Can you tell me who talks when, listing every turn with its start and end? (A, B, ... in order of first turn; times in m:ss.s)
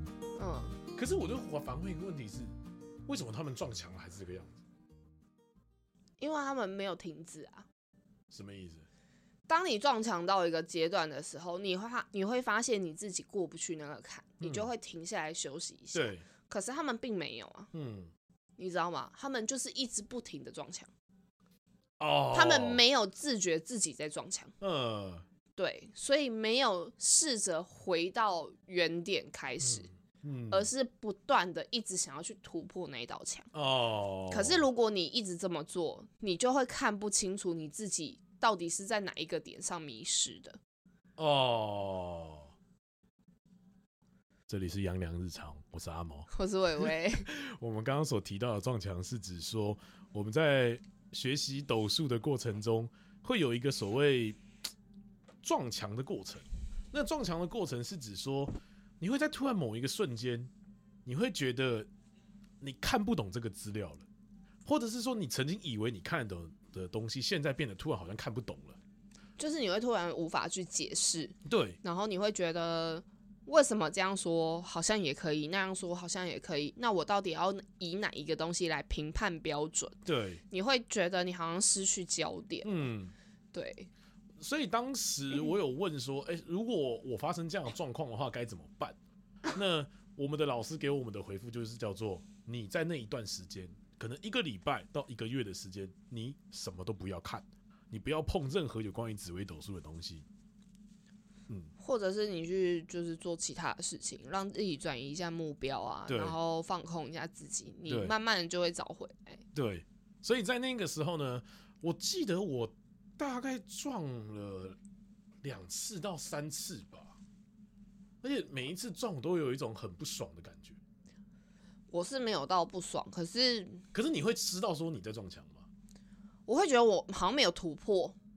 0:00.4-0:00.8 A
0:00.9-0:02.5 B
0:03.1-0:04.6 B
0:06.2-0:07.7 A
0:08.3-0:08.8 B
0:09.5-0:17.7 A
0:14.4-0:14.7 B
0:15.9-0:16.2 B
0:17.7-0:18.1 B
0:18.6-0:20.9 A
0:22.0-0:22.8 B
0:22.3-0:24.5 A
0:24.6-0:25.2 B
0:25.6-0:29.9 A
0:29.6-0:30.7 B
0:30.5-0:33.5 A
0:33.5-0:34.7 B
0:34.3-0:40.6 A
0:41.2-0:42.5 B
0:44.5-0:46.3 B
0:46.3-0:47.3 A
0:47.2-0:54.4 B
0:55.4-1:00.5 B
1:01.0-1:01.9 B
1:02.6-1:04.0 B
1:04.6-1:08.8 B
1:09.4-1:20.0 A
1:11.4-1:11.8 B
1:20.0-1:20.4 B
1:20.5-1:22.7 A
1:22.6-1:23.1 B
1:23.5-1:23.9 A
1:24.4-1:29.0 B
1:29.5-1:40.2 B
1:41.8-1:49.4 A
1:46.1-1:46.4 B
1:47.9-1:48.1 B
1:49.5-1:54.8 B
1:55.4-1:57.2 B
1:58.2-2:00.8 B
2:01.9-2:03.8 A
2:03.9-2:05.6 B
2:06.5-2:08.2 A